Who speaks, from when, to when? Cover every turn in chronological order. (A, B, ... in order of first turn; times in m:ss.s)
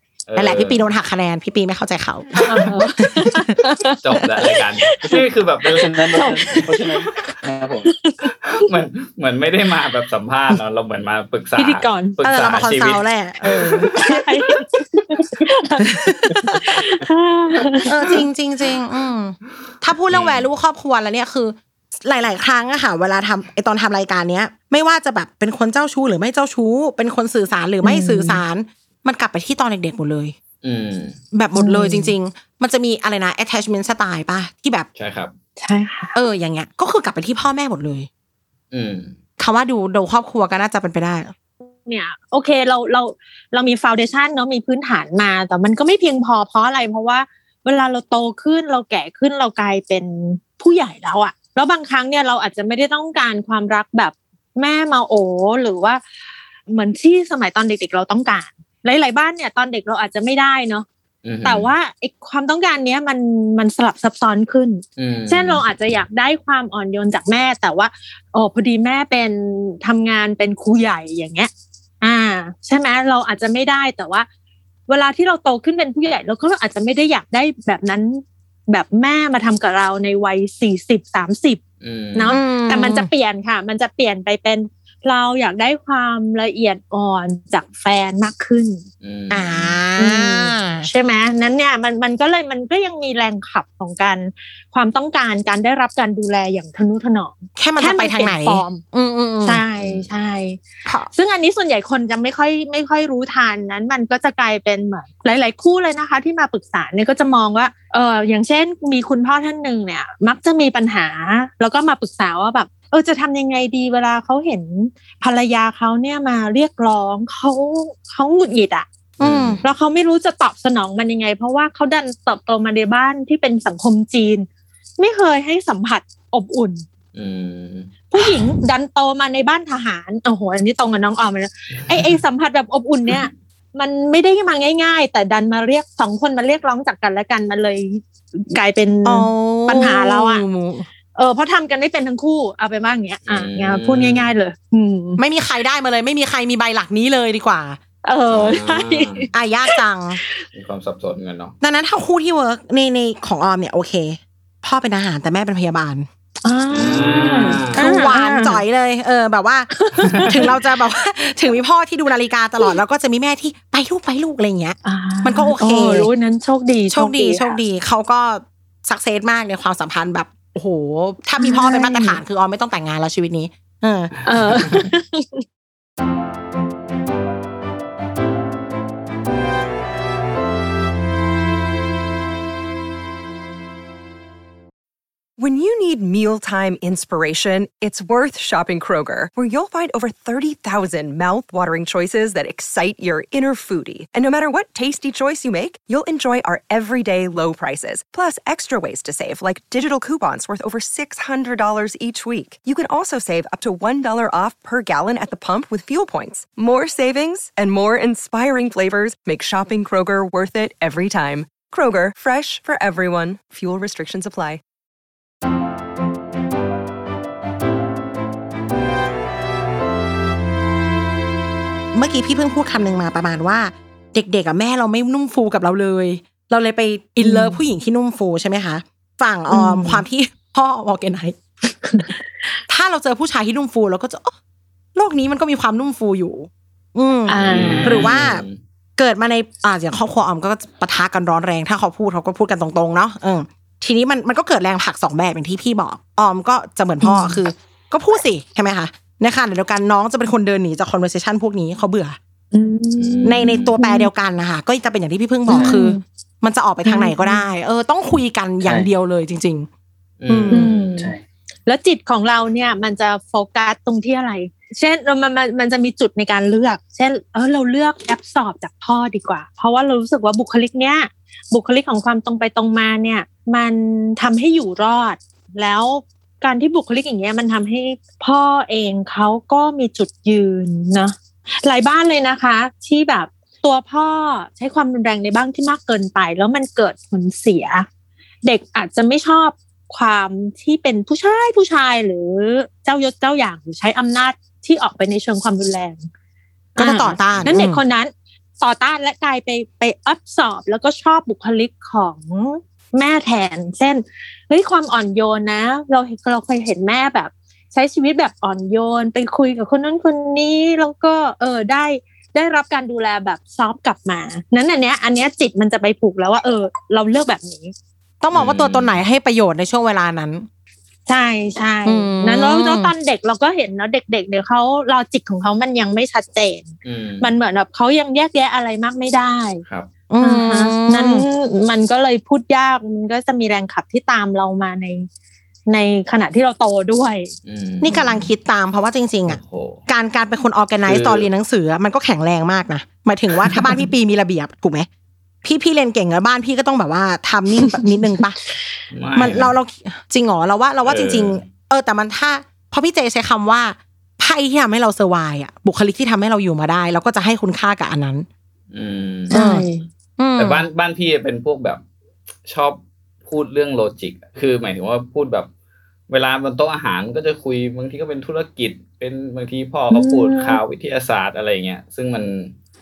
0:00.3-0:00.9 A
0:00.4-0:02.4 B
0:02.4-0:04.0 C
0:03.0-0:03.6 B
0:04.0-0:06.2 A
0:04.8-0:05.2 C
0:05.1-0:07.9 D
0:06.2-0:06.7 C
0:07.9-0:08.7 C
0:08.5-0:13.0 A
0:11.6-0:12.2 C
0:12.2-0:14.3 B
0:13.5-0:17.9 C
0:15.9-0:16.7 B
0:17.9-0:30.4 B
0:20.1-0:20.4 A
0:27.8-0:28.4 C
0:30.6-0:31.2 A
0:31.3-0:34.9 B
0:31.6-0:32.1 C
0:35.0-0:35.3 A
0:35.6-0:36.2 C
0:36.1-0:38.1 B
0:38.7-0:39.1 A
0:39.4-0:41.3 B
0:41.6-0:56.0 C
0:56.7-1:00.9 C
1:01.2-1:01.7 A
1:01.4-1:11.5 C
1:05.0-1:05.6 A
1:12.0-1:14.3 C
1:14.9-1:21.6 C
1:21.8-1:22.4 A
1:22.2-1:28.8 C
1:22.3-1:23.1 B
1:29.0-1:29.8 A
1:29.3-1:30.9 B
1:30.0-1:38.8 C
1:37.6-1:39.6 B
1:39.4-1:58.9 C
1:39.8-1:40.1 A
1:40.9-1:41.1 B
1:59.2-1:59.6 B
1:59.2-1:59.6 A
1:59.6-2:04.5 C
2:05.0-2:06.8 C
2:07.2-2:08.3 A
2:08.1-2:20.4 C
2:19.0-2:20.9 B
2:21.2-2:25.2 C
2:23.3-2:24.3 A
2:25.2-2:27.8 B
2:28.0-2:30.4 C
2:28.3-2:29.2 A
2:29.3-2:30.2 B
2:30.5-2:31.5 A
2:31.6-2:36.1 B
2:36.4-2:38.6 C
2:36.7-2:38.0 A
2:37.7-2:46.1 B
2:39.8-2:40.3 C
2:44.8-2:47.6 C
2:46.9-2:54.1 B
2:51.4-2:52.2 C
2:54.2-2:55.4 C
3:05.4-3:34.6 E
3:41.9-3:51.4 B
3:47.2-3:47.6 C
3:49.5-3:50.0 C
3:51.9-3:52.1 C
3:52.7-3:54.3 B
3:55.0-3:58.4 B
3:57.3-3:58.1 C
3:57.4-3:58.6 A
3:59.0-4:12.2 B
4:07.0-4:07.4 C
4:12.5-4:14.1 C
4:13.0-4:13.7 A
4:13.2-4:19.7 B
4:15.5-4:16.0 C
4:15.5-4:15.8 D
4:16.8-4:17.4 C
4:20.2-4:20.7 A
4:20.3-4:20.7 B
4:20.5-4:21.1 C
4:20.7-4:21.2 D
4:21.7-4:47.9 C
4:48.4-4:56.1 C
4:56.8-5:17.7 C
4:56.8-4:57.8 B
5:18.2-5:20.5 B
5:18.3-5:19.0 A
5:21.1-5:29.6 C
5:21.9-5:22.9 B
5:26.8-5:27.3 A
5:30.1-5:31.2 B
5:30.2-5:35.1 C
5:35.7-5:37.3 C
5:37.5-5:38.3 A
5:37.8-5:44.9 B
5:39.3-5:39.8 A
5:40.9-5:41.3 A
5:45.4-5:48.4 B
5:48.9-5:49.5 A
5:49.2-5:58.3 B
5:50.8-5:51.5 A
5:58.7-5:59.4 A
5:59.3-5:59.9 C
5:59.3-5:59.6 B
6:00.2-6:00.6 B
6:00.4-6:01.8 A
6:02.5-6:05.5 A
6:06.1-6:12.5 A
6:09.9-6:10.6 C